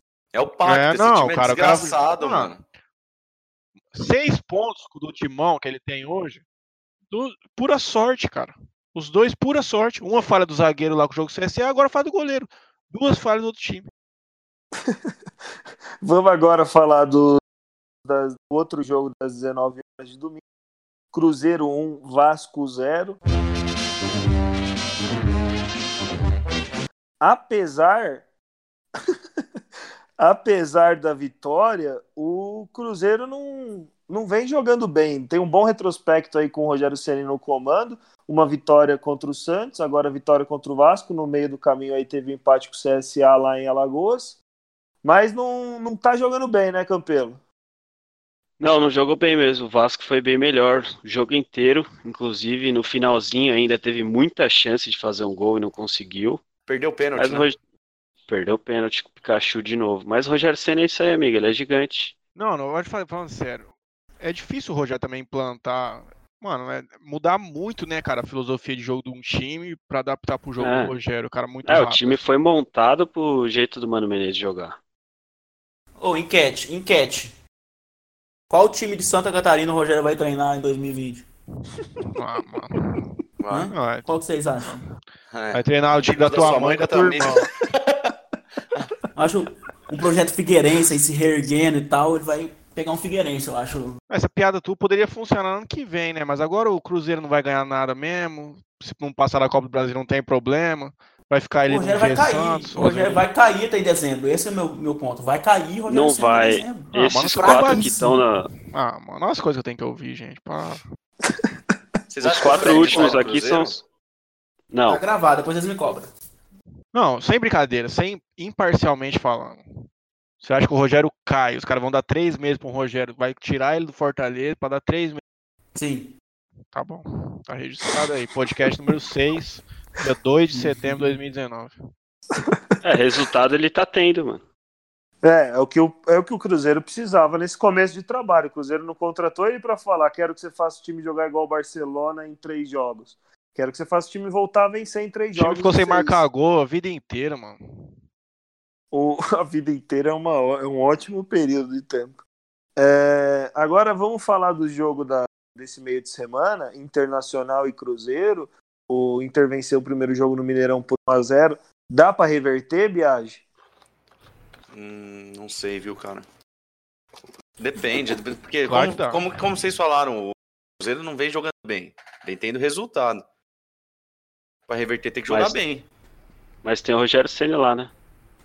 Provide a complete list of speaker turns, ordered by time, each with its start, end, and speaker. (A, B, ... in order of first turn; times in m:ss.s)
0:00.3-0:02.6 A
0:00.6-0:02.6 B
0:03.9-0:06.4 B
0:07.1-0:13.9 B
0:14.8-0:15.1 C
0:16.0-0:17.4 C
0:18.0-0:20.4 C
0:21.1-0:23.2 C
0:27.2-0:28.2 C
0:30.2-0:44.4 C
0:45.0-0:47.4 C
0:48.6-0:56.4 D
0:56.7-0:57.4 A
0:57.2-0:57.6 D
0:58.3-1:02.1 D
1:02.4-1:12.2 B
1:10.6-1:10.9 D
1:11.6-1:14.8 D
1:16.0-1:17.3 E
1:18.5-1:21.3 E
1:22.1-1:23.1 B
1:23.4-1:23.7 A
1:23.5-1:24.8 E
1:23.7-1:24.1 B
1:25.3-1:28.1 A
1:25.5-1:27.5 B
1:29.0-1:34.0 E
1:34.1-1:43.2 B
1:41.7-1:47.9 E
1:45.9-1:48.5 D
1:46.9-1:50.8 B
1:52.1-1:53.8 A
1:52.2-1:53.8 D
1:52.6-1:53.2 E
1:54.7-1:55.0 D
1:54.9-1:56.1 E
1:56.9-1:59.8 B
2:00.4-2:05.2 B
2:05.7-2:06.1 E
2:06.7-2:11.8 B
2:10.5-2:11.1 E
2:12.5-2:12.8 C
2:12.8-2:14.4 D
2:15.2-2:26.2 C
2:25.3-2:27.6 B
2:28.9-2:32.2 C
2:32.8-2:43.4 C
2:44.7-2:46.3 A
2:47.6-2:53.2 A
2:48.7-2:49.2 B
2:54.7-2:55.8 A
2:55.3-2:55.6 D
2:56.6-2:57.9 D